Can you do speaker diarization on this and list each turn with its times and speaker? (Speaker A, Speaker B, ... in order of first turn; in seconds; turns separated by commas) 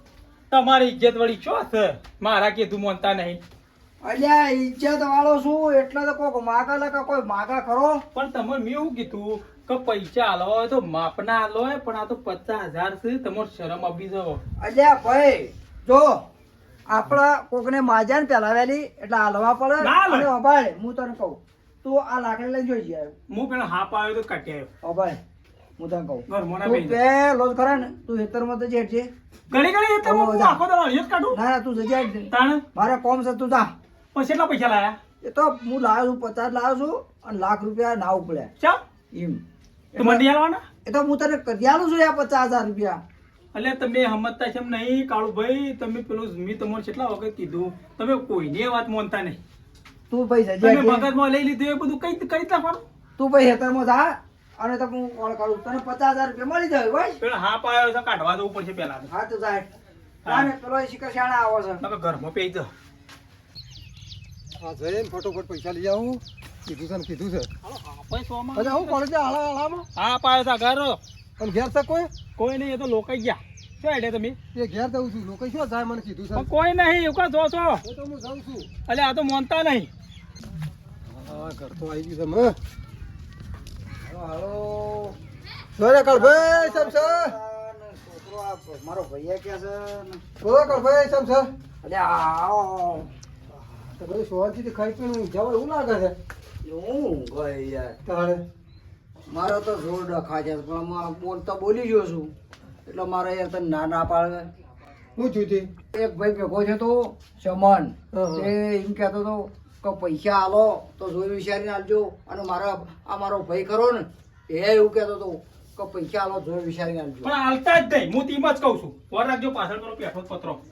Speaker A: 0.5-3.4, Speaker B: 4.0-8.0, Speaker A: 8.1-14.4, Speaker B: 14.6-16.2, Speaker B: 16.9-23.1, Speaker A: 19.8-20.3, Speaker A: 23.3-24.7, Speaker B: 24.8-25.2, Speaker B: 25.8-29.1, Speaker A: 26.3-27.0, Speaker A: 29.5-31.4, Speaker B: 30.0-30.6, Speaker B: 31.3-33.7, Speaker A: 32.3-32.6, Speaker A: 34.1-35.0, Speaker B: 35.2-38.5, Speaker B: 39.1-39.4, Speaker B: 39.9-40.2, Speaker A: 40.0-40.6, Speaker B: 40.8-43.0, Speaker A: 43.5-49.4, Speaker B: 50.1-51.1, Speaker A: 50.6-52.9, Speaker B: 53.2-57.2, Speaker A: 57.2-59.1, Speaker B: 59.1-59.7, Speaker A: 60.2-60.5, Speaker B: 60.2-61.8, Speaker A: 61.8-62.7, Speaker C: 64.6-67.5, Speaker A: 67.6-69.0, Speaker C: 68.5-69.8, Speaker A: 70.0-71.0, Speaker C: 71.4-72.1, Speaker A: 72.4-74.3, Speaker C: 74.5-76.5, Speaker A: 76.3-77.8, Speaker C: 77.8-78.7, Speaker A: 78.9-79.9, Speaker C: 81.1-82.6, Speaker B: 84.0-85.2, Speaker C: 85.8-87.3, Speaker B: 86.1-90.2, Speaker C: 90.4-91.5, Speaker B: 91.8-93.1, Speaker C: 94.0-96.2, Speaker B: 96.6-98.0, Speaker C: 98.0-98.4, Speaker B: 99.3-102.3, Speaker B: 102.8-104.5, Speaker C: 105.2-105.7, Speaker B: 105.9-117.3, Speaker C: 108.1-108.5, Speaker A: 117.2-120.6